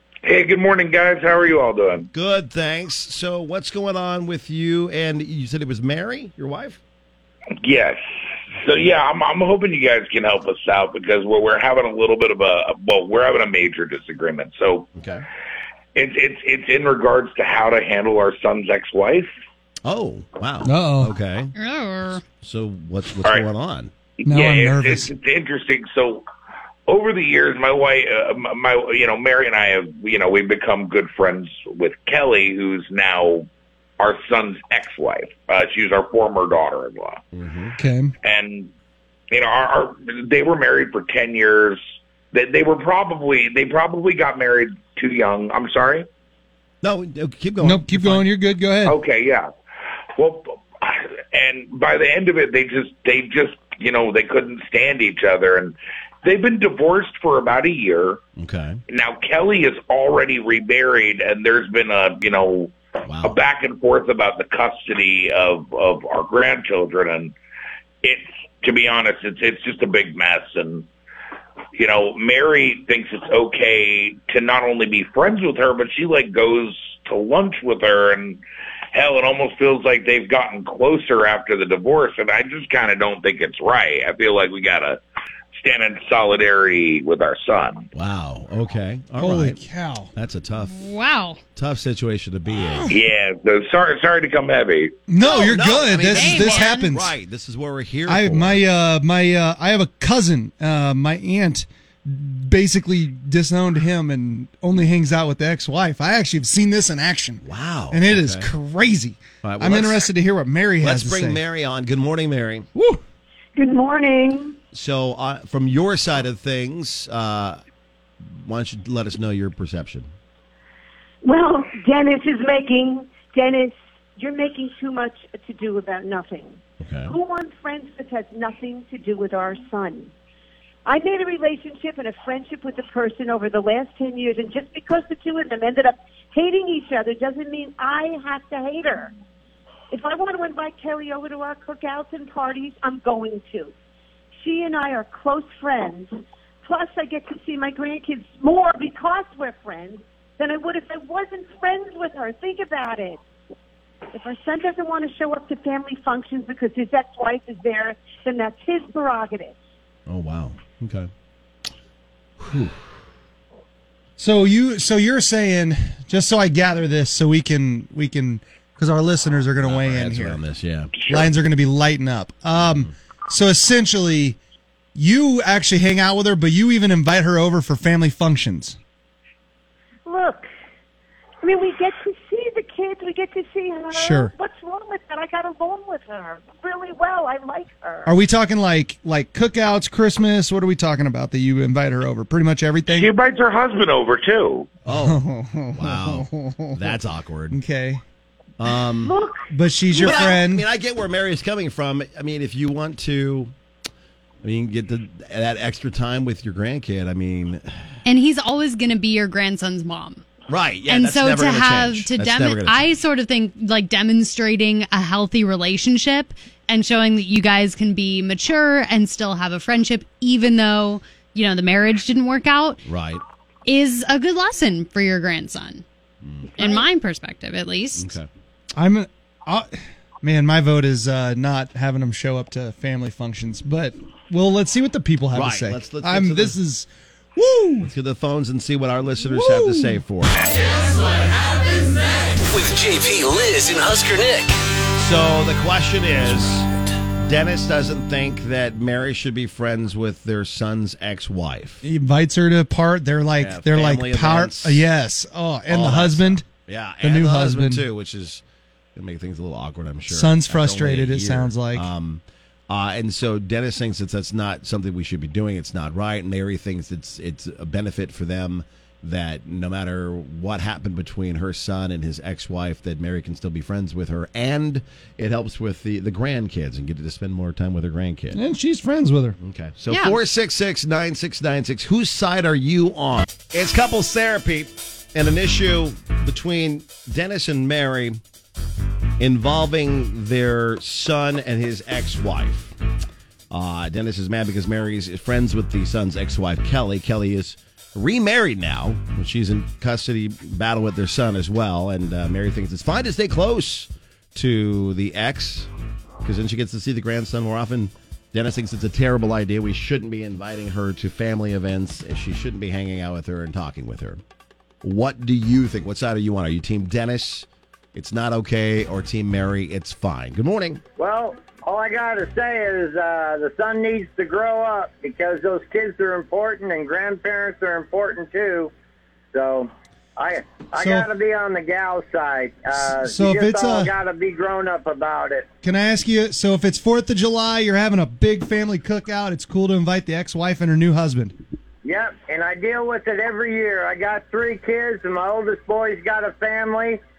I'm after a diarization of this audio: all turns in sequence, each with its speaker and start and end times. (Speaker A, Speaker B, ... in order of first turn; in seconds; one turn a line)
Speaker A: 0.2-2.1
Speaker B: 2.1-6.8
Speaker A: 7.6-8.0
Speaker A: 8.6-14.9
Speaker B: 15.0-15.2
Speaker A: 15.9-19.3
Speaker B: 19.9-21.5
Speaker C: 20.6-21.1
Speaker D: 21.6-22.2
Speaker B: 22.2-23.9
Speaker C: 24.3-25.1
Speaker A: 24.3-26.2
Speaker A: 26.9-33.5
Speaker A: 34.0-37.2
Speaker B: 37.3-37.8
Speaker C: 37.8-38.1
Speaker A: 38.2-38.7
Speaker A: 39.3-41.8
Speaker A: 42.3-46.0
Speaker B: 46.8-48.3
Speaker C: 47.6-49.0
Speaker A: 48.9-49.5
Speaker A: 50.2-58.2
Speaker B: 58.4-58.8
Speaker A: 58.9-67.3
Speaker B: 63.1-63.4
Speaker A: 68.0-70.9
Speaker A: 71.8-78.4
Speaker A: 78.9-85.0
Speaker A: 85.6-87.9
Speaker B: 87.9-89.6
Speaker C: 89.2-90.1
Speaker B: 90.1-90.9
Speaker D: 90.7-91.4
Speaker B: 91.6-92.9
Speaker C: 92.6-93.0
Speaker A: 92.9-94.9
Speaker C: 95.1-97.2
Speaker B: 95.2-98.6
Speaker D: 96.2-96.9
Speaker C: 98.1-111.4
Speaker B: 107.4-108.5
Speaker B: 109.4-110.1
Speaker B: 110.8-112.7
Speaker C: 112.8-113.0
Speaker E: 113.6-114.6
Speaker B: 114.7-117.6
Speaker B: 118.2-120.1
Speaker E: 121.2-130.1
Speaker B: 126.8-127.1
Speaker E: 130.8-139.1
Speaker E: 139.9-143.7
Speaker E: 144.4-153.2
Speaker E: 154.1-159.6
Speaker B: 160.1-161.1
Speaker B: 162.4-162.8
Speaker C: 164.2-170.4
Speaker B: 169.6-171.0
Speaker C: 171.1-174.4
Speaker C: 175.0-178.8
Speaker E: 180.1-180.5
Speaker E: 181.4-188.2
Speaker C: 183.9-184.3
Speaker C: 188.1-193.1
Speaker A: 192.9-194.7
Speaker C: 194.9-196.9
Speaker B: 194.9-195.2
Speaker B: 195.8-197.6
Speaker C: 197.5-198.0
Speaker B: 198.6-199.1
Speaker E: 199.0-200.3
Speaker C: 199.5-200.6
Speaker B: 200.0-203.5
Speaker B: 204.4-208.0
Speaker D: 208.1-210.2
Speaker B: 210.5-212.9
Speaker D: 210.9-222.9
Speaker B: 222.9-223.2
Speaker D: 223.7-225.8
Speaker B: 226.2-226.5
Speaker D: 226.6-228.2
Speaker E: 226.6-226.8
Speaker B: 228.0-228.3
Speaker C: 228.8-237.9
Speaker B: 235.3-236.6
Speaker B: 237.8-240.4
Speaker C: 239.2-240.0
Speaker F: 242.5-244.6
Speaker B: 245.0-246.7
Speaker B: 247.2-251.8
Speaker C: 251.8-256.5
Speaker B: 253.4-254.8
Speaker B: 255.7-258.4
Speaker C: 257.0-257.8
Speaker B: 258.9-278.4
Speaker C: 260.1-261.9
Speaker C: 278.3-279.4
Speaker B: 279.4-288.2
Speaker D: 279.9-280.2
Speaker B: 289.2-292.8
Speaker B: 293.5-305.7
Speaker B: 306.2-314.2
Speaker B: 314.8-320.8
Speaker G: 321.0-328.7
Speaker G: 329.3-335.5
Speaker C: 330.8-331.1
Speaker C: 332.8-333.9
Speaker C: 335.6-341.4
Speaker G: 341.8-347.0